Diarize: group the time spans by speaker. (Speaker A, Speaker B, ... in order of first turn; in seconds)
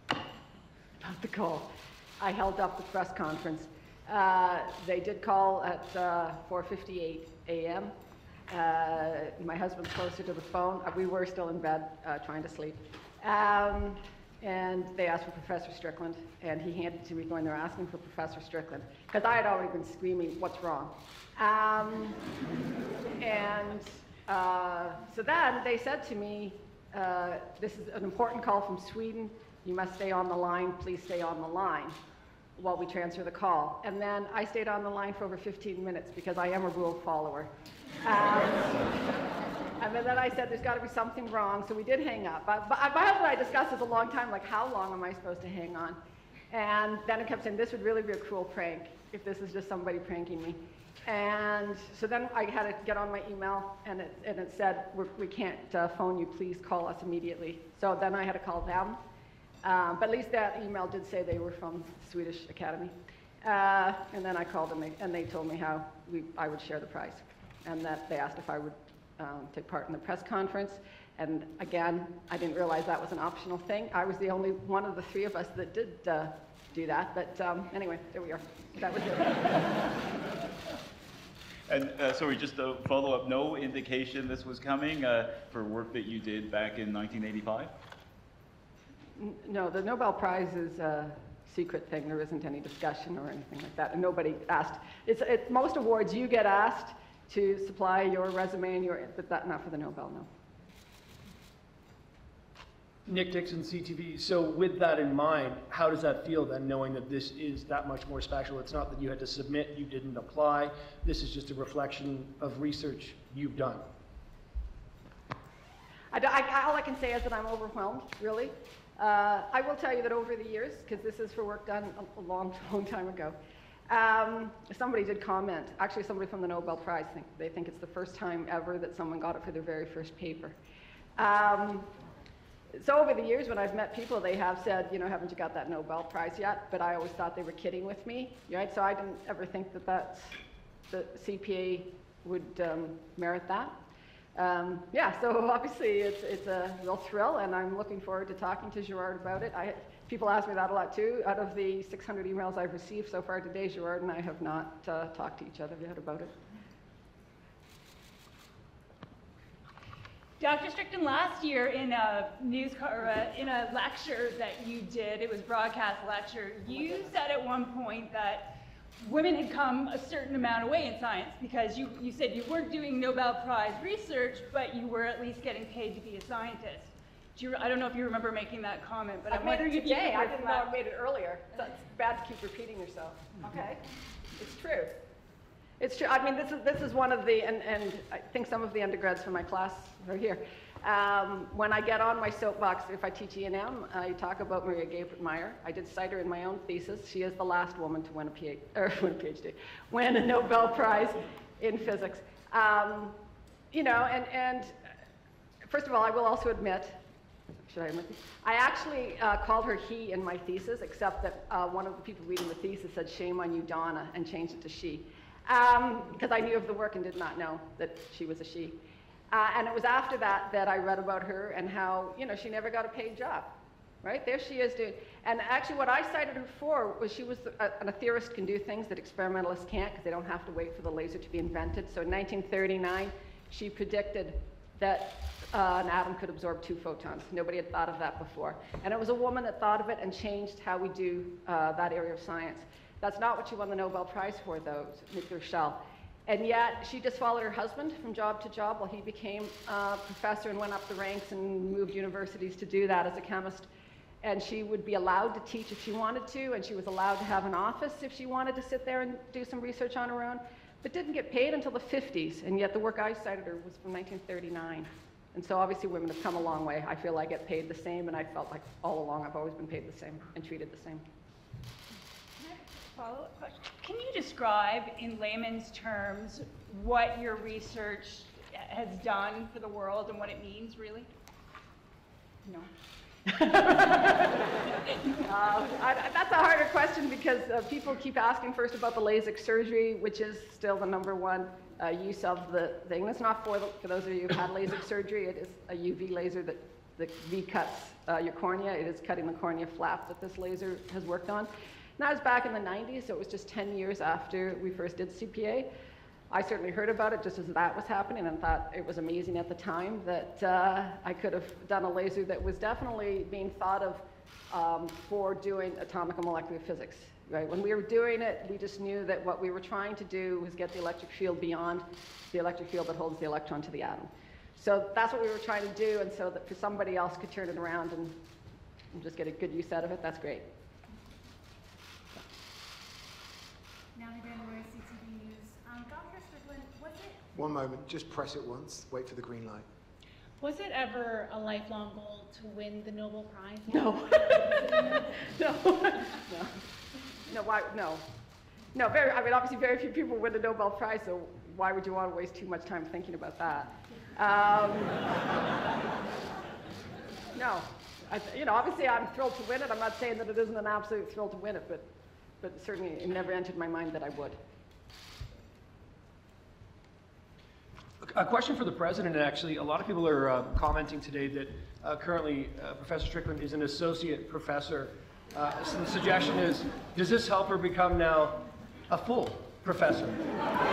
Speaker A: 1.0-1.7, 2.2-7.9, 8.5-22.2, 23.2-32.0, 32.6-37.5, 38.0-39.1, 39.8-46.0, 46.5-59.0, 59.6-79.9, 89.2-100.3, 116.1-123.4, 123.9-130.6, 131.2-131.9, 132.8-140.4, 140.9-143.7, 144.4-156.3, 179.3-183.8, 184.4-184.9, 185.8-203.2, 203.7-204.8, 205.7-207.0, 207.6-218.8, 219.3-253.7, 254.2-271.1, 283.3-284.4, 285.2-305.7, 306.3-328.2, 328.9-330.5, 343.7-346.5, 347.3-348.0, 348.7-355.0, 357.4-364.4
Speaker B: 81.7-87.7
Speaker C: 103.1-113.9, 368.0-380.3
Speaker D: 160.4-180.7, 272.4-281.1, 282.4-282.7
Speaker E: 334.0-337.2, 340.4-344.8
Speaker F: 337.3-339.6